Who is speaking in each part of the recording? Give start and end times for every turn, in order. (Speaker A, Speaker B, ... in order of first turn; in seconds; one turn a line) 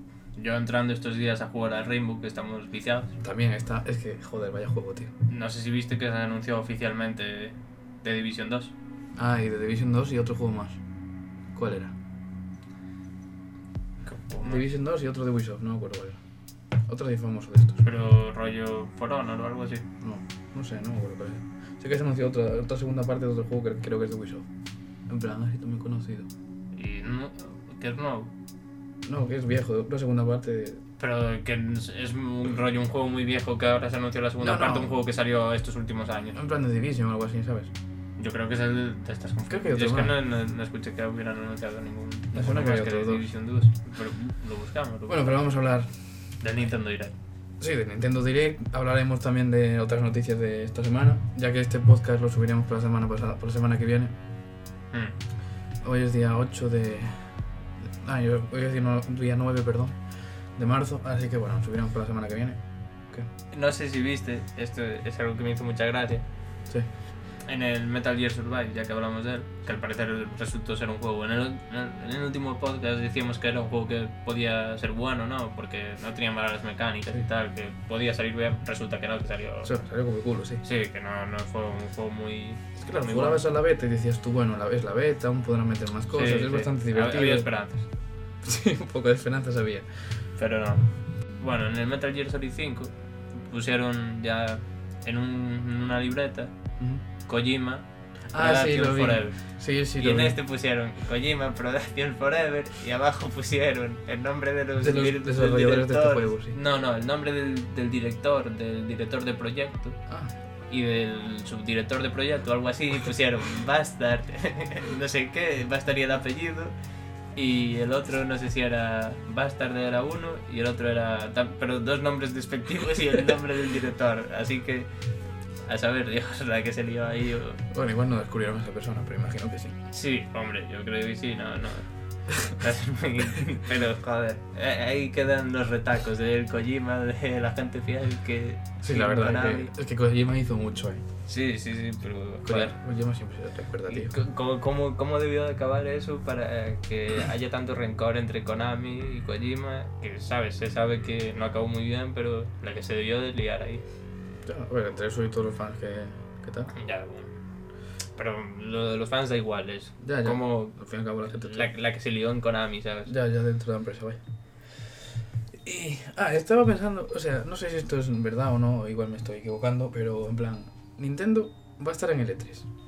Speaker A: 0.3-3.1
Speaker B: 3.2-5.1
Speaker A: 5.3-8.7
Speaker B: 9.2-10.8
Speaker B: 11.5-11.9
Speaker A: 14.1-14.6
Speaker B: 14.4-16.2
Speaker B: 16.9-17.8
Speaker A: 17.8-19.9
Speaker B: 20.0-24.5
Speaker B: 25.1-26.3
Speaker A: 26.7-28.3
Speaker B: 29.0-30.8
Speaker A: 31.0-36.4
Speaker B: 34.4-35.0
Speaker B: 36.3-37.7
Speaker A: 38.2-45.5
Speaker B: 39.5-40.2
Speaker B: 42.3-43.3
Speaker B: 45.1-46.0
Speaker A: 46.4-47.1
Speaker B: 47.6-54.1
Speaker B: 55.8-60.0
Speaker B: 60.5-62.6
Speaker A: 63.5-66.2
Speaker A: 67.4-79.7
Speaker B: 79.6-80.6
Speaker A: 80.6-83.4
Speaker B: 82.8-87.5
Speaker A: 86.1-87.8
Speaker B: 88.4-90.1
Speaker A: 90.4-96.5
Speaker A: 97.3-99.4
Speaker B: 98.3-100.4
Speaker A: 100.0-110.0
Speaker B: 104.8-106.5
Speaker B: 110.1-110.3
Speaker A: 110.7-116.7
Speaker A: 117.3-124.9
Speaker A: 125.7-127.6
Speaker B: 127.7-129.7
Speaker A: 129.9-139.7
Speaker B: 138.8-141.0
Speaker A: 141.3-142.7
Speaker B: 142.4-144.1
Speaker A: 143.9-153.8
Speaker B: 154.4-156.7
Speaker A: 156.7-157.3
Speaker A: 158.2-160.8
Speaker B: 160.0-161.7
Speaker A: 161.4-163.1
Speaker B: 163.1-164.2
Speaker B: 165.6-172.7